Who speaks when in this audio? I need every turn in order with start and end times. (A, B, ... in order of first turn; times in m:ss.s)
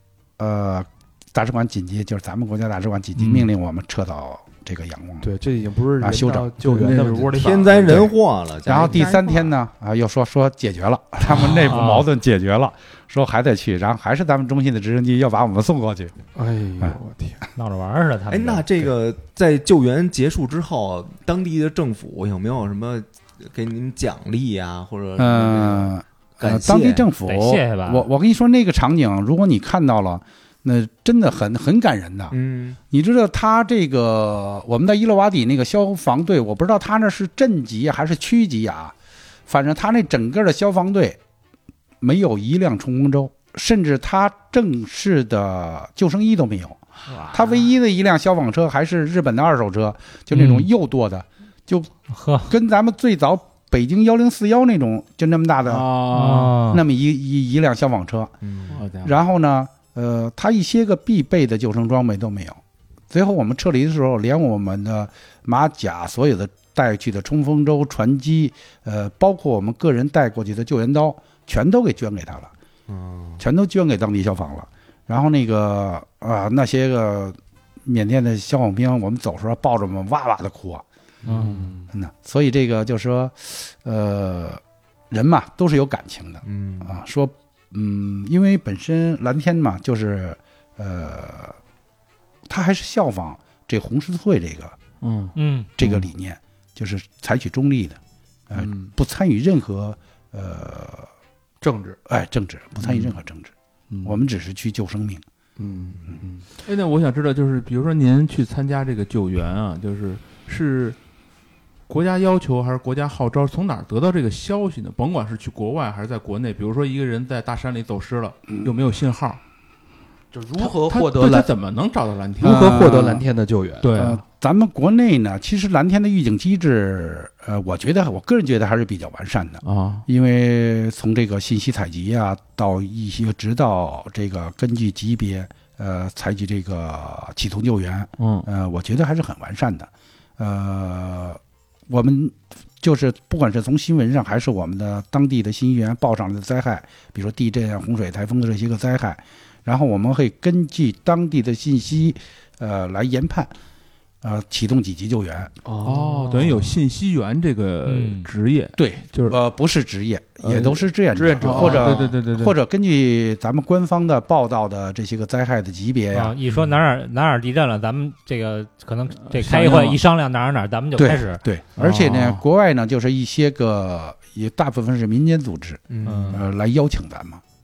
0:00.4-0:05.3 A
0:03.2-0:03.5 B
0:05.2-0:07.6 C
0:06.0-0:06.8 A
0:06.6-0:08.1 D
0:07.3-0:09.5 E
0:07.9-0:08.1 A
0:08.6-0:16.1 A
0:11.3-0:12.1 B
0:16.4-0:17.4 C
0:17.6-0:18.7 B
0:18.3-0:27.1 E
0:25.2-0:32.4 A
0:27.3-0:28.1 B
0:32.3-0:32.8 E
0:32.9-0:39.0 A
0:39.5-0:41.2 A
0:42.0-0:51.9 A
0:50.3-0:50.7 B
0:52.1-0:52.5 B
0:52.4-0:55.9 A
0:55.7-0:56.7 D
0:56.1-0:56.8 B
0:56.7-0:58.4 A
0:58.4-0:58.8 E
0:58.7-0:59.2 D
0:59.0-1:02.6 A
1:03.1-1:12.5 A
1:12.9-1:13.4 E
1:13.4-1:20.8 A
1:21.2-1:21.9 C
1:21.3-1:21.5 B
1:21.9-1:31.6 A
1:26.4-1:26.9 E
1:32.5-1:34.8 A
1:35.0-1:35.4 D
1:35.4-1:35.7 B
1:35.8-1:41.1 A
1:38.5-1:38.9 C
1:41.6-1:42.0 C
1:42.1-1:43.5 A
1:43.9-1:44.2 C
1:44.0-1:45.2 A
1:45.6-1:46.5 C
1:46.6-1:51.0 D
1:51.9-1:59.4 D
2:00.3-2:01.5 C
2:00.6-2:03.0 D
2:02.4-2:04.0 C
2:02.4-2:03.2 A
2:03.8-2:04.2 D
2:03.9-2:33.5 A
2:09.6-2:10.0 D
2:18.2-2:18.5 D
2:34.2-2:35.5 A
2:35.6-2:36.7 C
2:35.8-2:39.4 D
2:37.8-2:38.3 B
2:38.8-2:46.4 A
2:40.4-2:42.1 C
2:41.4-2:42.5 D
2:46.1-2:51.4 B
2:49.3-2:50.0 D
2:51.0-2:57.4 A
2:51.8-2:52.4 D
2:55.9-2:56.4 E
2:56.0-2:56.4 B